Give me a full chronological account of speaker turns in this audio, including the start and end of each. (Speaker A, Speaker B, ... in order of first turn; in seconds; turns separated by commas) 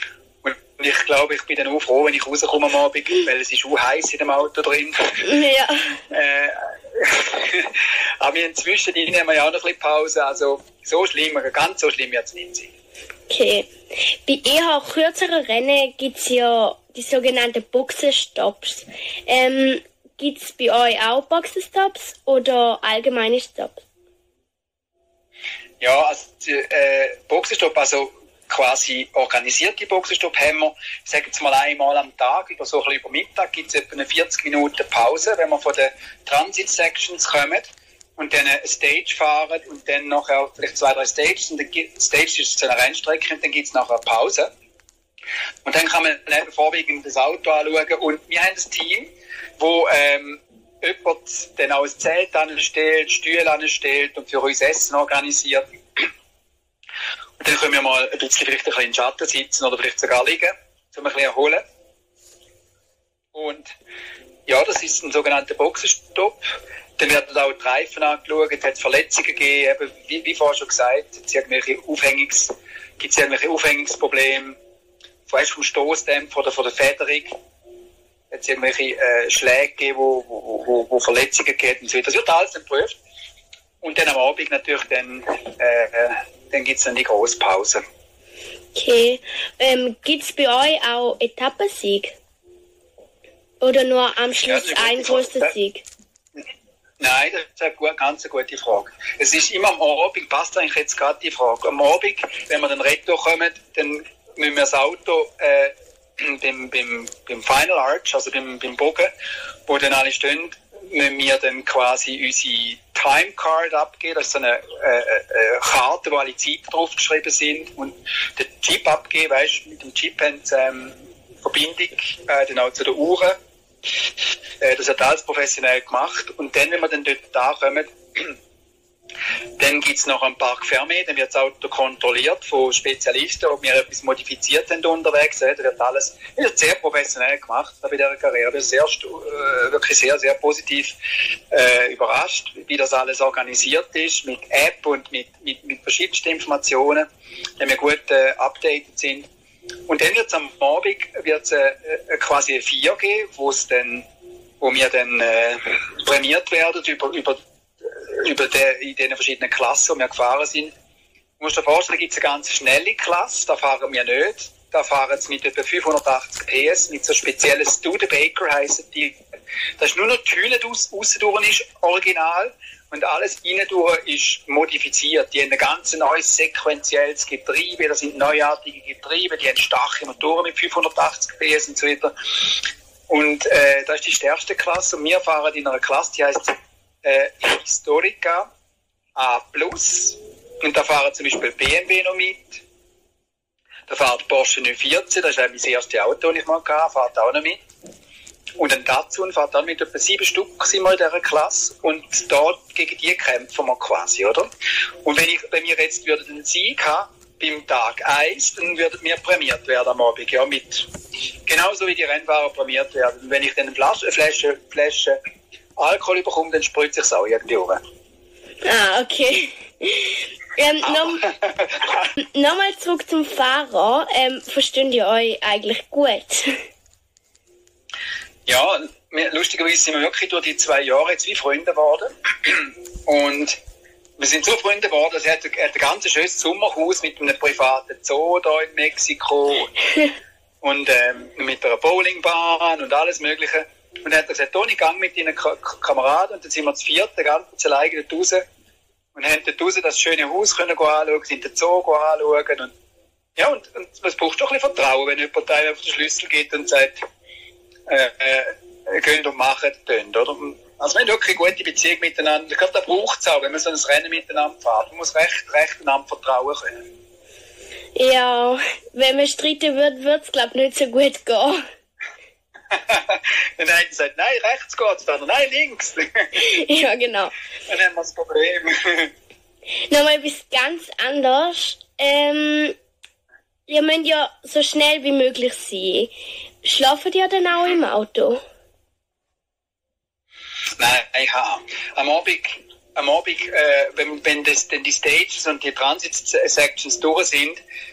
Speaker A: 0.4-5.3, Speaker B: 5.2-6.0, Speaker A: 6.1-12.7, Speaker B: 13.3-23.8, Speaker A: 25.8-44.5, Speaker A: 45.6-56.1, Speaker A: 57.4-61.6, Speaker A: 63.3-63.7, Speaker A: 64.5-74.6, Speaker A: 75.3-77.3, Speaker A: 78.3-83.0, Speaker A: 83.8-87.8, Speaker B: 88.7-92.2, Speaker B: 93.6-95.8, Speaker A: 94.5-95.5, Speaker A: 97.0-109.1, Speaker A: 109.7-123.3, Speaker A: 124.6-128.4, Speaker A: 129.6-140.9, Speaker A: 141.5-147.1, Speaker A: 147.6-149.3, Speaker A: 149.9-154.1, Speaker A: 154.6-160.7, Speaker A: 161.4-169.2, Speaker A: 169.8-188.5, Speaker A: 189.2-192.6, Speaker A: 193.9-197.6, Speaker A: 198.6-204.4, Speaker A: 205.0-210.9, Speaker A: 211.4-215.2, Speaker A: 215.8-217.8, Speaker B: 218.6-221.2, Speaker A: 220.8-222.1, Speaker B: 222.2-226.6, Speaker A: 228.4-233.6, Speaker A: 234.2-239.8, Speaker A: 240.6-248.4, Speaker A: 249.1-252.7, Speaker A: 253.4-257.0, Speaker A: 257.9-266.9, Speaker B: 267.9-271.6, Speaker A: 272.7-276.4, Speaker B: 276.3-277.3, Speaker A: 277.6-279.1, Speaker B: 279.9-282.7, Speaker B: 283.7-288.4, Speaker A: 290.8-297.6